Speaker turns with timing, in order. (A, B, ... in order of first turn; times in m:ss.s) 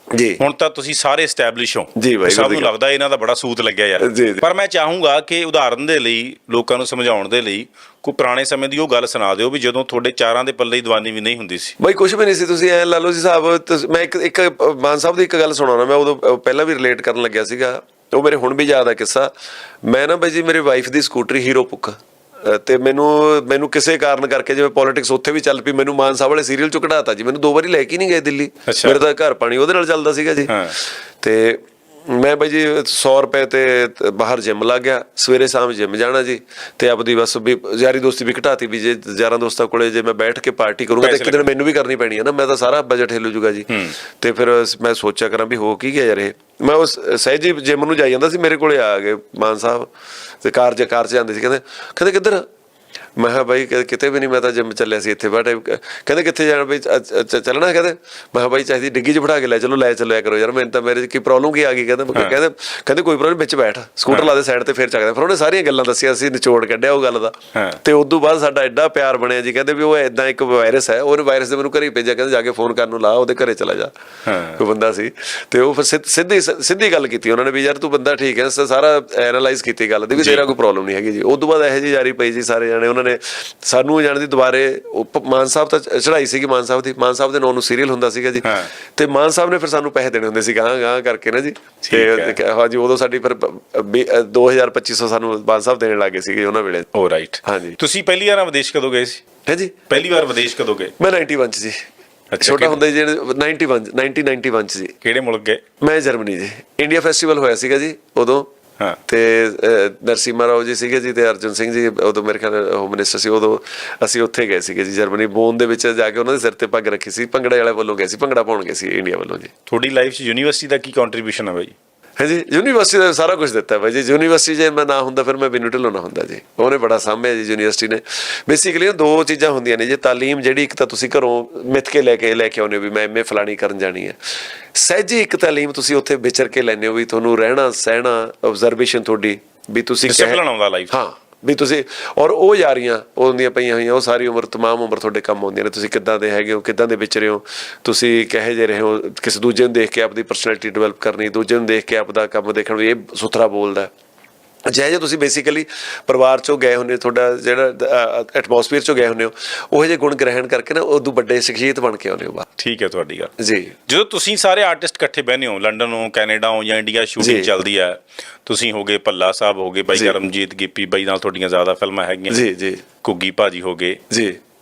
0:00.1-0:00.4 A
0:00.4-0:11.7 B
0:02.0-0:02.7 A
0:04.0-0:04.4 A
0:11.8-0:19.3 A
0:19.8-0:49.9 A
0:28.7-0:29.0 B
0:30.5-0:30.7 B
0:41.0-0:41.5 B
0:43.7-0:44.0 B
0:50.4-0:52.4 A
0:53.2-1:13.9 A
1:07.5-1:07.8 B
1:14.2-1:14.6 B
1:14.5-1:36.9 A
1:20.2-1:20.4 B
1:28.4-1:28.7 B
1:31.8-1:32.4 B
1:36.9-1:39.2 B
1:37.4-1:37.8 A
1:39.4-1:39.8 A
1:39.9-1:40.9 B
1:41.0-1:41.8 A
1:42.3-1:42.8 B
1:42.4-1:44.9 A
1:45.0-1:45.6 B
1:45.8-1:48.5 A
1:49.1-1:59.5 A
1:59.7-2:01.7 B
2:02.2-2:14.2 A
2:14.7-2:33.9 A
2:20.1-2:20.9 B
2:34.7-2:42.4 A
2:42.6-2:43.3 B
2:43.4-2:43.7 A
2:43.9-2:52.4 B
2:47.2-2:47.5 A
2:52.3-2:52.8 A
2:53.0-2:54.0 B
2:54.1-2:54.4 A